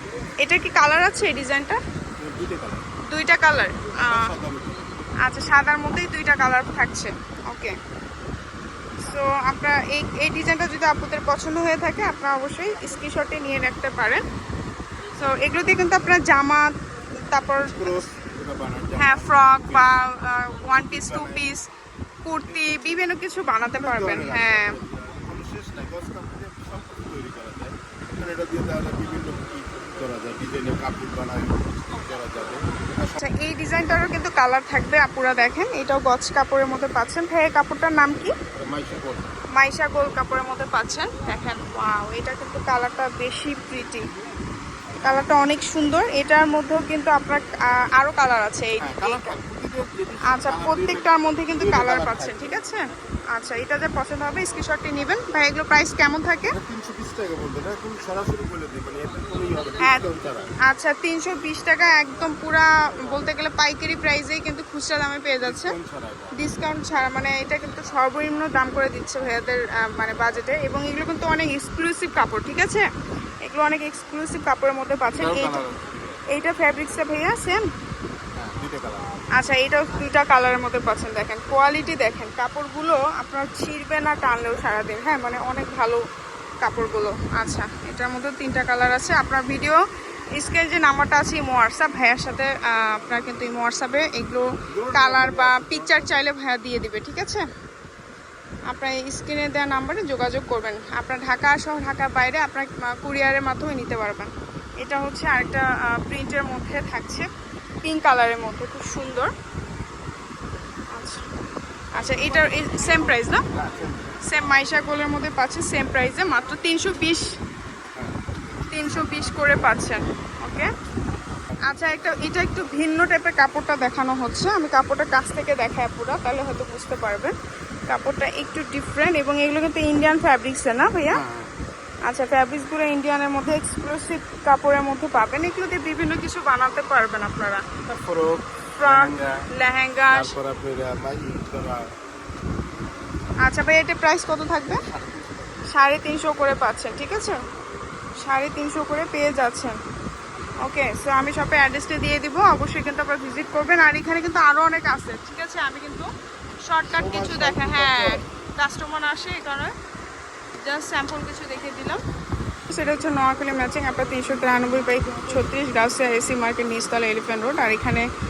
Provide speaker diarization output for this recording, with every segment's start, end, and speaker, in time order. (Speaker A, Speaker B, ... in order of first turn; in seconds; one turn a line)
Speaker A: 0.4-1.8
Speaker B: 2.2-2.9
Speaker A: 3.1-4.3
Speaker B: 4.0-4.8
Speaker A: 5.2-7.8
Speaker A: 9.0-14.2
Speaker A: 15.2-16.7
Speaker A: 17.3-18.0
Speaker B: 17.7-19.9
Speaker A: 19.0-21.7
Speaker B: 20.8-21.5
Speaker A: 22.2-24.8
Speaker B: 22.4-23.0
Speaker B: 23.6-33.2
Speaker A: 33.2-38.3
Speaker B: 38.6-39.3
Speaker A: 39.6-44.1
Speaker A: 45.0-49.4
Speaker B: 48.8-52.6
Speaker A: 50.3-56.5
Speaker B: 56.5-60.5
Speaker A: 59.8-60.1
Speaker A: 60.7-65.8
Speaker B: 65.4-66.4
Speaker A: 66.3-72.9
Speaker A: 73.4-75.7
Speaker B: 75.2-75.9
Speaker A: 76.3-77.6
Speaker B: 78.4-79.2
Speaker A: 79.3-86.0
Speaker A: 86.6-89.8
Speaker A: 90.4-97.4
Speaker B: 94.7-96.3
Speaker A: 98.7-107.3
Speaker A: 107.8-109.3
Speaker A: 110.9-111.2
Speaker A: 111.9-113.4
Speaker B: 113.5-114.2
Speaker A: 114.3-117.3
Speaker A: 118.7-120.7
Speaker A: 121.7-127.3
Speaker A: 127.9-131.2
Speaker B: 131.1-131.5
Speaker A: 132.1-137.6
Speaker B: 137.9-139.4
Speaker A: 138.8-140.3
Speaker B: 140.1-141.9
Speaker A: 143.4-144.8
Speaker B: 144.9-145.6
Speaker A: 145.7-147.4
Speaker A: 148.2-149.8
Speaker A: 150.6-156.1
Speaker A: 156.7-159.7
Speaker B: 156.9-158.2
Speaker A: 160.6-162.0
Speaker A: 162.7-168.1